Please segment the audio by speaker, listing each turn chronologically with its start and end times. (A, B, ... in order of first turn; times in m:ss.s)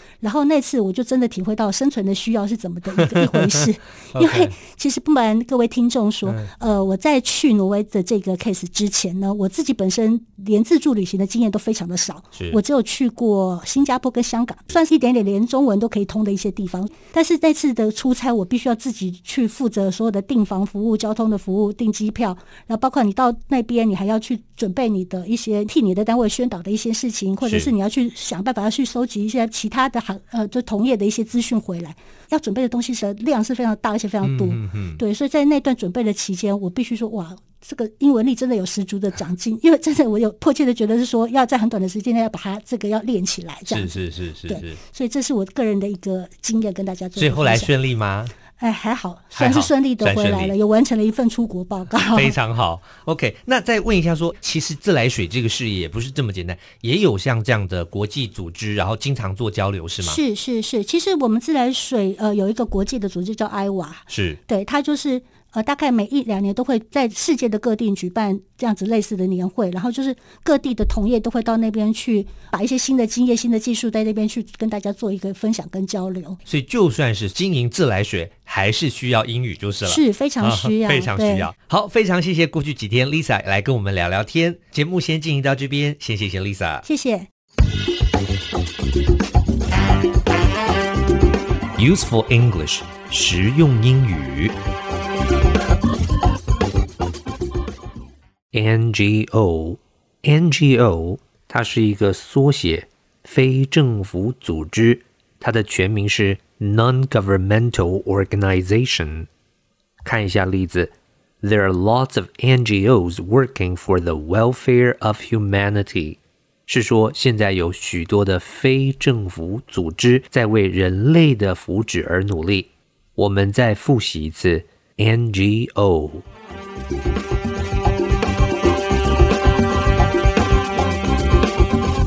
0:00.2-0:44.0 A
0:04.1-0:04.5 B
0:12.4-0:12.6 B
0:27.4-0:27.7 B
0:34.2-0:35.0 B
0:43.7-0:44.8 B
0:44.5-0:47.7 A
0:47.2-0:48.3 B
0:48.6-0:52.4 A
0:49.3-0:50.5 B
0:52.1-1:00.2 B
1:00.0-1:16.4 A
1:04.1-1:04.4 B
1:16.4-1:26.8 B
1:19.8-1:21.5 A
1:26.8-1:27.3 A
1:31.8-1:34.5 B
1:38.5-1:49.3 B
1:50.0-2:06.2 B